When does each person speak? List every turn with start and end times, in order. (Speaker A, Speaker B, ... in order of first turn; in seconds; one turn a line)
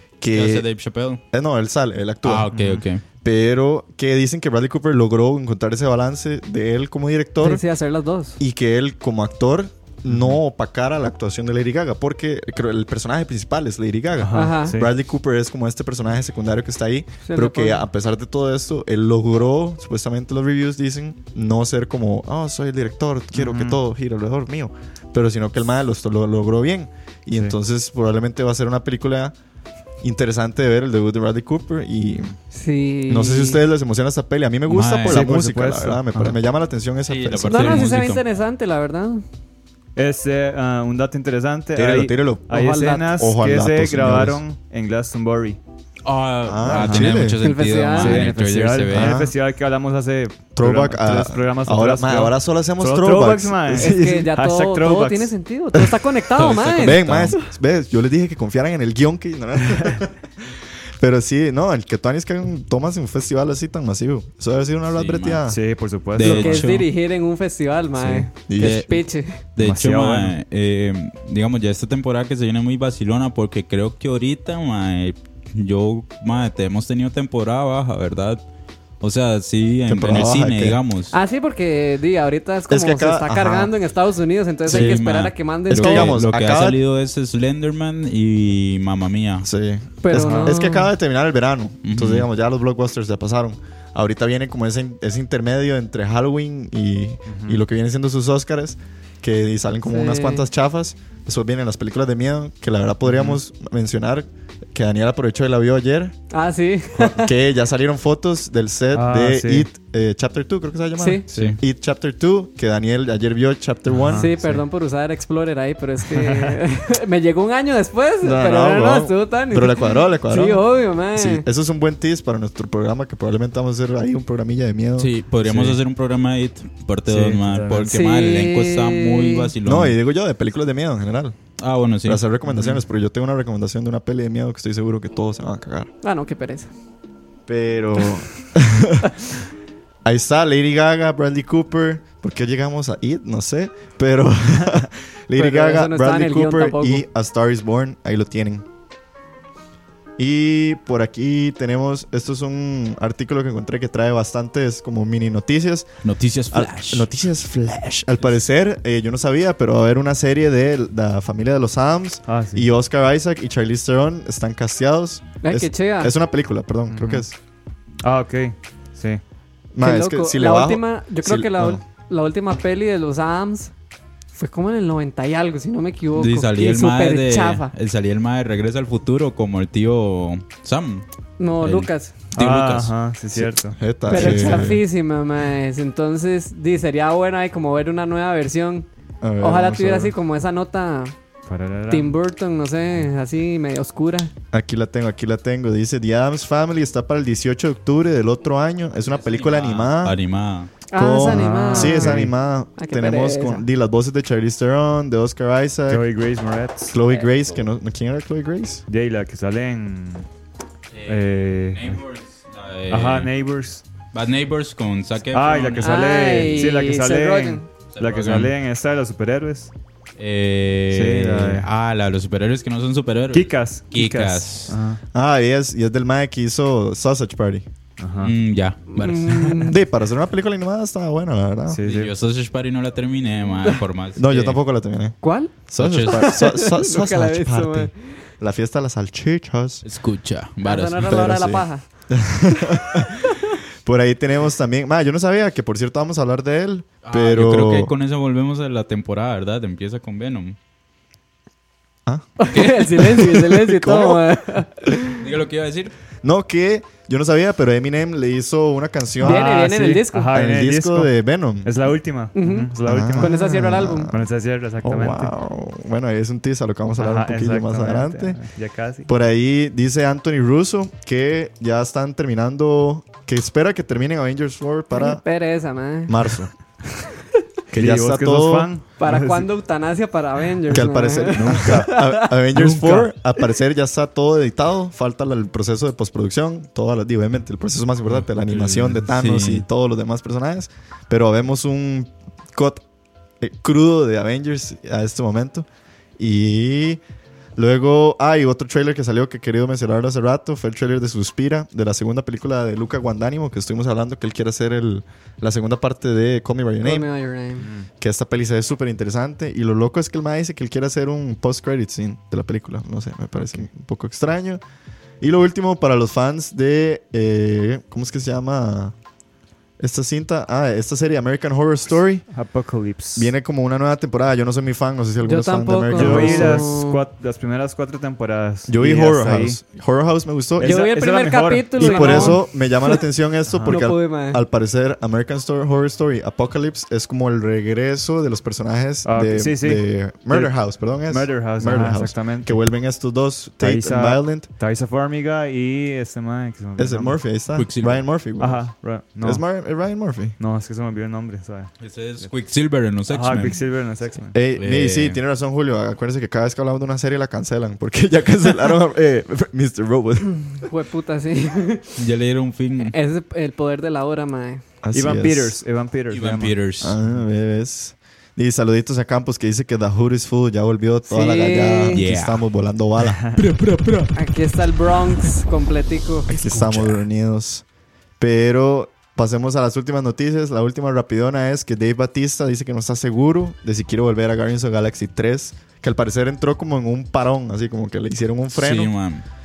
Speaker A: 0.2-0.7
Speaker B: 0.3-1.2
Speaker A: 1.3-2.5
Speaker B: 2.2-3.0
Speaker C: 2.5-2.8
Speaker A: 3.2-7.6
Speaker D: 7.4-8.4
Speaker A: 8.4-29.4
Speaker C: 10.1-10.4
Speaker C: 14.2-14.9
Speaker D: 14.3-14.8
Speaker D: 17.2-17.8
Speaker C: 23.3-23.8
Speaker A: 30.0-32.3
Speaker D: 32.5-33.6
Speaker A: 33.1-38.0
Speaker B: 34.7-35.3
Speaker C: 35.1-36.4
Speaker B: 37.1-38.2
Speaker D: 37.5-39.2
Speaker C: 40.0-45.6
Speaker A: 41.8-42.5
Speaker D: 42.5-43.2
Speaker A: 43.1-44.4
Speaker B: 46.0-49.2
Speaker A: 46.5-47.4
Speaker C: 46.7-47.1
Speaker D: 47.4-48.3
Speaker C: 48.0-55.3
Speaker A: 48.9-49.3
Speaker A: 50.5-54.3
Speaker D: 53.8-57.5
Speaker B: 56.4-57.4
Speaker A: 56.8-60.2
Speaker A: 61.0-65.6
Speaker B: 64.9-65.4
Speaker C: 65.5-66.7
Speaker B: 66.1-66.9
Speaker D: 66.2-69.4
Speaker B: 68.0-69.0
Speaker A: 68.5-68.9
Speaker B: 69.5-78.4
Speaker C: 69.6-70.3
Speaker B: 79.0-81.2
Speaker A: 79.9-80.8
Speaker D: 81.1-86.2
Speaker A: 82.7-83.7
Speaker B: 84.7-89.5
Speaker A: 84.7-85.0
Speaker A: 85.7-86.8
Speaker A: 89.4-106.2
Speaker D: 90.0-90.9
Speaker C: 90.1-90.6
Speaker B: 91.8-92.3
Speaker C: 97.3-97.6
Speaker D: 99.8-100.5
Speaker C: 103.0-103.4
Speaker D: 106.3-107.3
Speaker A: 107.0-114.3
Speaker C: 108.9-109.7
Speaker D: 111.0-111.2
Speaker C: 111.3-111.6
Speaker B: 111.3-111.6
Speaker C: 113.9-114.6
Speaker D: 114.2-121.5
Speaker C: 116.1-116.6
Speaker A: 118.2-125.1
Speaker B: 125.0-130.0
Speaker C: 125.5-125.8
Speaker C: 127.1-127.9
Speaker D: 127.9-129.5
Speaker A: 129.7-131.4
Speaker B: 131.6-132.2
Speaker A: 132.0-135.9
Speaker C: 132.5-132.8
Speaker D: 136.0-136.7
Speaker A: 137.5-139.1
Speaker A: 140.1-148.7
Speaker D: 145.3-147.1
Speaker A: 150.2-155.9
Speaker B: 156.0-157.1
Speaker A: 156.5-167.4
Speaker C: 162.3-162.7
Speaker D: 165.4-166.1
Speaker C: 166.9-167.2
Speaker C: 168.0-169.2
Speaker A: 169.7-171.8
Speaker D: 169.8-173.7
Speaker D: 174.3-177.7
Speaker B: 176.2-181.1
Speaker D: 181.4-182.2
Speaker B: 181.6-182.9
Speaker C: 182.3-184.7
Speaker A: 183.3-184.8
Speaker D: 184.1-188.9
Speaker A: 189.2-190.2
Speaker D: 189.4-191.1
Speaker C: 191.5-192.1
Speaker D: 191.9-194.3
Speaker A: 194.5-200.2
Speaker B: 199.1-200.7
Speaker D: 200.9-203.7
Speaker A: 200.9-206.1
Speaker C: 201.3-202.3
Speaker C: 205.9-207.0
Speaker A: 206.9-208.8
Speaker C: 208.9-210.3
Speaker B: 210.9-213.3
Speaker C: 211.1-212.0
Speaker C: 212.9-213.8
Speaker B: 214.1-216.6
Speaker C: 215.3-219.7
Speaker D: 215.8-217.7
Speaker B: 217.9-218.5
Speaker B: 220.2-224.8
Speaker C: 220.9-221.7
Speaker C: 223.3-225.0
Speaker A: 225.1-227.7
Speaker C: 228.0-228.3
Speaker B: 228.2-229.7
Speaker D: 228.9-229.8
Speaker A: 229.7-231.8
Speaker C: 231.7-232.1
Speaker B: 231.8-234.6
Speaker A: 234.2-239.8
Speaker D: 235.2-235.5
Speaker B: 235.8-236.2
Speaker D: 236.1-238.2
Speaker B: 239.8-241.2
Speaker D: 240.6-241.8
Speaker A: 241.1-247.9
Speaker B: 247.1-250.6
Speaker A: 252.1-254.2
Speaker D: 252.4-255.2
Speaker B: 255.2-255.9
Speaker A: 256.2-259.5
Speaker C: 259.2-261.1
Speaker D: 259.2-260.4
Speaker A: 260.3-261.8
Speaker C: 261.6-263.5
Speaker D: 262.3-264.1
Speaker A: 262.8-264.3
Speaker C: 264.1-265.3
Speaker A: 264.8-268.4
Speaker C: 267.0-269.1
Speaker A: 269.1-275.2
Speaker D: 274.9-276.2
Speaker A: 276.1-276.5
Speaker A: 277.7-278.7
Speaker C: 277.7-279.5
Speaker D: 279.0-282.3
Speaker A: 280.7-292.8
Speaker C: 281.5-281.9
Speaker C: 282.6-283.1
Speaker B: 288.5-289.6
Speaker A: 293.4-295.7
Speaker A: 296.2-297.0
Speaker A: 297.6-307.1
Speaker D: 306.8-307.7
Speaker C: 307.6-307.9
Speaker A: 308.0-314.6
Speaker C: 313.4-313.7
Speaker A: 315.2-318.9
Speaker A: 319.8-322.3
Speaker C: 322.3-323.3
Speaker A: 323.1-326.7
Speaker D: 325.2-327.0
Speaker C: 325.9-329.6
Speaker A: 328.7-330.8
Speaker C: 330.6-332.4
Speaker D: 330.6-333.0
Speaker A: 331.8-344.5
Speaker C: 333.5-333.8
Speaker D: 333.7-334.4
Speaker C: 339.1-342.6
Speaker C: 343.6-347.2
Speaker A: 346.8-350.4
Speaker B: 347.6-348.1
Speaker C: 348.4-349.4
Speaker C: 350.4-352.3
Speaker B: 351.8-353.6
Speaker C: 353.1-354.4
Speaker A: 354.3-360.6
Speaker B: 354.6-355.2
Speaker D: 360.5-362.0
Speaker B: 362.0-363.0
Speaker D: 362.8-364.6
Speaker A: 364.8-365.6
Speaker C: 364.9-366.6
Speaker B: 366.1-367.0
Speaker A: 366.8-373.2
Speaker D: 371.1-372.0
Speaker B: 371.9-372.4
Speaker C: 373.0-373.4
Speaker B: 373.4-374.1
Speaker D: 374.1-376.3
Speaker A: 376.3-377.6
Speaker A: 378.2-388.9
Speaker B: 388.5-389.2